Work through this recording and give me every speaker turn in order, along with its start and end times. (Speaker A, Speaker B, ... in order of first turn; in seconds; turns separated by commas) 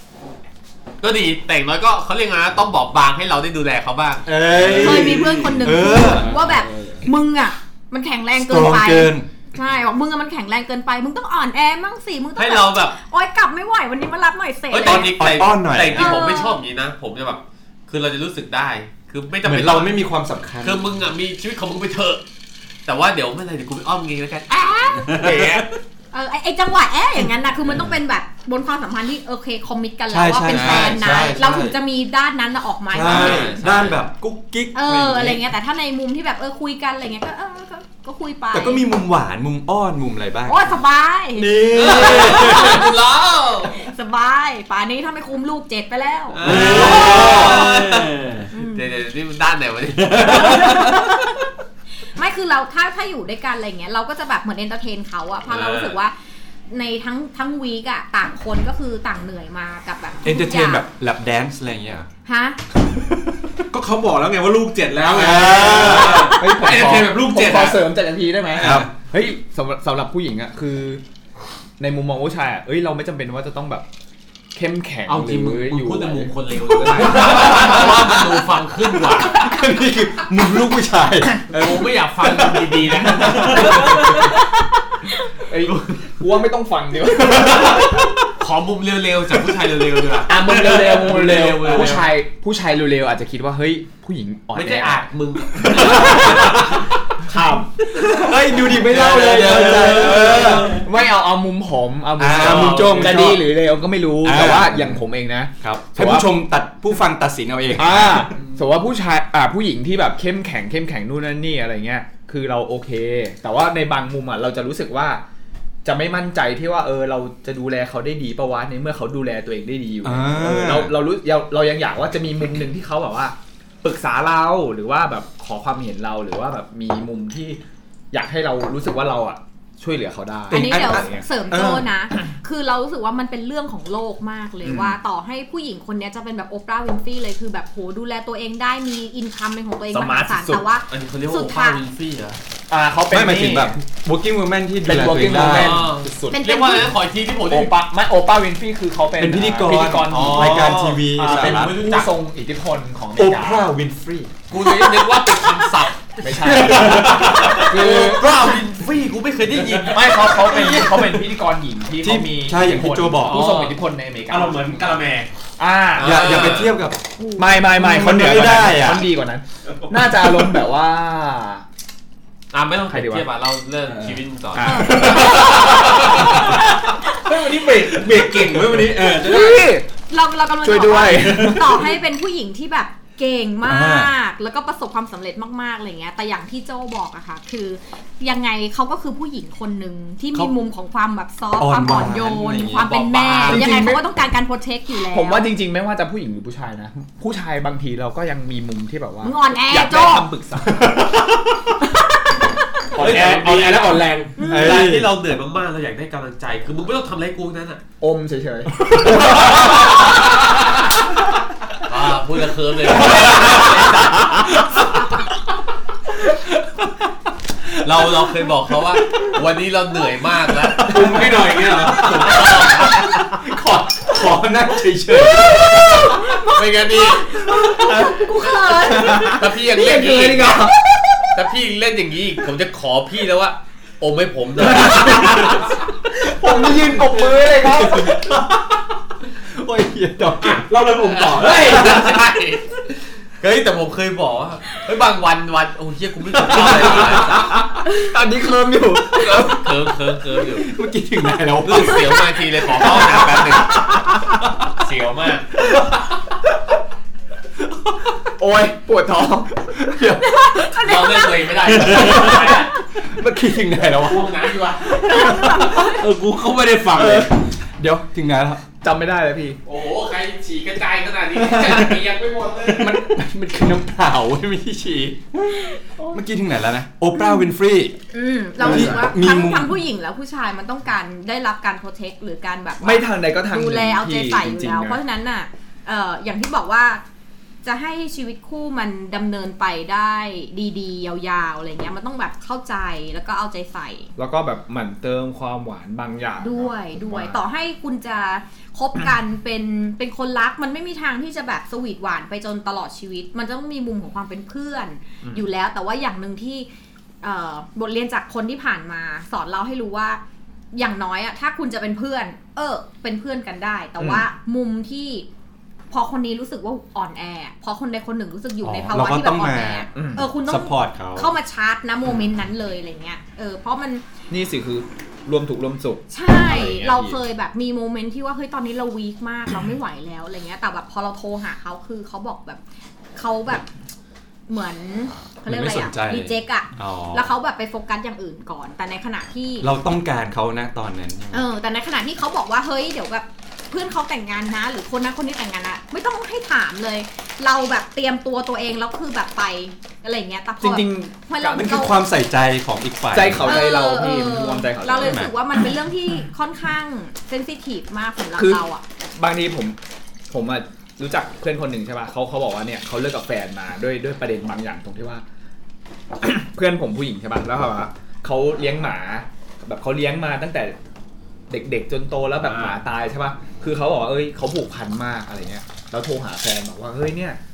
Speaker A: 1.0-4.3, Speaker B: 4.2-6.3, Speaker C: 4.5-7.0, Speaker D: 4.7-15.1, Speaker B: 8.3-9.2, Speaker A: 12.3-12.9, Speaker A: 14.7-20.0, Speaker B: 14.8-16.1, Speaker D: 15.9-16.6, Speaker B: 19.4-20.9, Speaker A: 20.6-22.2, Speaker A: 22.9-25.1, Speaker D: 24.5-25.1, Speaker C: 25.1-25.6, Speaker E: 25.2-25.6, Speaker D: 26.1-33.6, Speaker B: 30.1-31.8, Speaker A: 30.5-30.8, Speaker B: 32.9-35.4, Speaker A: 33.0-34.0, Speaker D: 34.7-38.8, Speaker B: 38.5-40.8, Speaker D: 40.5-42.9, Speaker B: 41.3-42.8, Speaker A: 41.7-43.8, Speaker D: 43.7-47.7, Speaker A: 46.3-50.8, Speaker B: 46.4-47.7, Speaker C: 46.5-48.5, Speaker D: 48.5-48.9, Speaker C: 50.0-51.0, Speaker D: 50.2-51.4, Speaker D: 52.1-56.1, Speaker A: 55.5-56.0, Speaker D: 56.7-60.8, Speaker B: 60.2-62.1, Speaker D: 62.2-62.6, Speaker C: 63.7-67.8, Speaker B: 65.1-66.3, Speaker A: 65.6-66.2, Speaker E: 65.7-71.0, Speaker D: 66.1-66.4, Speaker B: 68.5-68.9, Speaker C: 68.6-68.8, Speaker E: 71.8-73.9, Speaker E: 74.5-78.0, Speaker A: 75.1-79.4, Speaker B: 77.3-77.8, Speaker B: 79.2-81.6, Speaker A: 81.5-84.2, Speaker B: 82.3-84.1, Speaker E: 83.2-84.1, Speaker E: 85.5-88.0, Speaker A: 85.6-86.1, Speaker B: 87.2-88.2, Speaker A: 88.4-92.1, Speaker E: 90.2-95.0, Speaker A: 94.5-96.9, Speaker E: 95.6-106.3, Speaker B: 95.9-96.5, Speaker B: 98.0-100.8, Speaker A: 98.8-100.8, Speaker B: 102.2-103.4, Speaker A: 102.2-103.2, Speaker B: 104.2-105.0, Speaker B: 105.6-108.3, Speaker E: 107.7-115.2, Speaker E: 115.8-127.6, Speaker B: 120.0-120.9, Speaker E: 128.1-131.3, Speaker B: 130.5-131.9, Speaker D: 130.5-141.8, Speaker E: 134.6-135.0, Speaker E: 139.9-140.7, Speaker A: 140.9-142.4, Speaker E: 142.7-143.8, Speaker B: 143.1-145.8, Speaker E: 144.8-146.5, Speaker A: 145.2-147.7, Speaker D: 146.3-146.9, Speaker E: 147.5-153.7, Speaker B: 149.2-151.7, Speaker A: 150.1-152.1, Speaker B: 153.2-155.3, Speaker A: 154.5-156.0, Speaker E: 156.2-158.4, Speaker B: 156.3-157.7, Speaker C: 156.5-157.7, Speaker A: 156.8-160.5, Speaker E: 159.8-164.8, Speaker B: 160.5-161.0, Speaker B: 162.0-163.5, Speaker A: 163.2-163.8, Speaker C: 164.3-165.3, Speaker E: 165.6-166.4, Speaker A: 165.9-166.8, Speaker B: 166.0-167.0, Speaker D: 167.2-167.5, Speaker E: 167.3-171.6, Speaker B: 167.6-169.1, Speaker C: 169.8-170.4, Speaker A: 172.5-176.5, Speaker E: 172.9-173.2, Speaker C: 173.9-174.2, Speaker E: 174.5-176.6, Speaker D: 174.6-176.3, Speaker C: 174.7-179.6, Speaker D: 177.0-177.3, Speaker E: 178.1-179.8, Speaker D: 179.2-195.4, Speaker E: 180.6-181.9, Speaker C: 181.1-181.6, Speaker B: 183.7-184.1, Speaker B: 191.6-193.6, Speaker A: 193.3-193.6, Speaker E: 193.4-194.0, Speaker E: 195.1-201.1, Speaker D: 199.2-200.3, Speaker B: 200.7-201.4, Speaker D: 202.3-202.6, Speaker C: 202.9-204.4, Speaker A: 203.0-207.8, Speaker E: 203.0-203.8, Speaker D: 204.4-204.8, Speaker B: 204.4-205.1, Speaker E: 208.0-209.9, Speaker B: 208.9-209.8, Speaker A: 209.6-209.9, Speaker A: 211.8-214.7, Speaker B: 216.3-216.9, Speaker A: 217.8-221.1, Speaker B: 220.8-226.4, Speaker C: 220.8-222.6, Speaker A: 222.0-223.0, Speaker D: 226.3-229.3, Speaker A: 226.4-227.4, Speaker E: 227.7-231.3, Speaker A: 228.8-230.7, Speaker A: 231.3-235.6, Speaker E: 234.6-235.6, Speaker E: 236.1-238.2, Speaker B: 236.2-238.8, Speaker B: 239.5-240.7, Speaker C: 240.6-241.9, Speaker A: 240.9-247.5, Speaker E: 246.4-249.9, Speaker A: 249.2-250.7, Speaker B: 250.6-253.9, Speaker A: 251.6-255.5, Speaker E: 258.4-259.6, Speaker B: 259.8-260.7, Speaker D: 260.2-261.4, Speaker A: 260.8-262.7, Speaker C: 261.8-262.2, Speaker B: 261.9-264.3, Speaker A: 263.9-265.0, Speaker B: 264.8-265.8, Speaker D: 265.0-266.0, Speaker C: 265.8-267.3, Speaker B: 266.9-268.6, Speaker E: 268.8-269.6, Speaker A: 269.6-272.9, Speaker B: 272.8-278.0, Speaker D: 275.5-276.2, Speaker D: 277.1-277.4, Speaker D: 278.1-287.0, Speaker B: 278.6-279.8, Speaker E: 278.6-279.1, Speaker E: 282.8-285.0, Speaker D: 287.6-294.1, Speaker E: 294.2-297.4, Speaker D: 296.4-306.7, Speaker E: 305.2-305.5, Speaker D: 307.2-310.2, Speaker D: 310.7-315.2, Speaker E: 314.0-314.2, Speaker D: 315.9-324.0, Speaker B: 318.6-319.9, Speaker E: 319.9-320.3, Speaker B: 320.4-321.3, Speaker E: 324.3-327.2, Speaker D: 326.1-332.6, Speaker D: 333.1-333.7, Speaker D: 334.5-339.7, Speaker B: 335.5-337.3, Speaker B: 339.6-341.4, Speaker D: 341.3-351.9, Speaker E: 350.6-351.8, Speaker B: 351.5-353.6, Speaker E: 353.1-355.3, Speaker D: 353.4-358.8, Speaker B: 354.9-355.3, Speaker E: 358.4-358.6, Speaker E: 359.1-359.8, Speaker E: 360.3-365.2, Speaker E: 366.2-370.8, Speaker E: 371.5-377.4, Speaker A: 372.4-372.8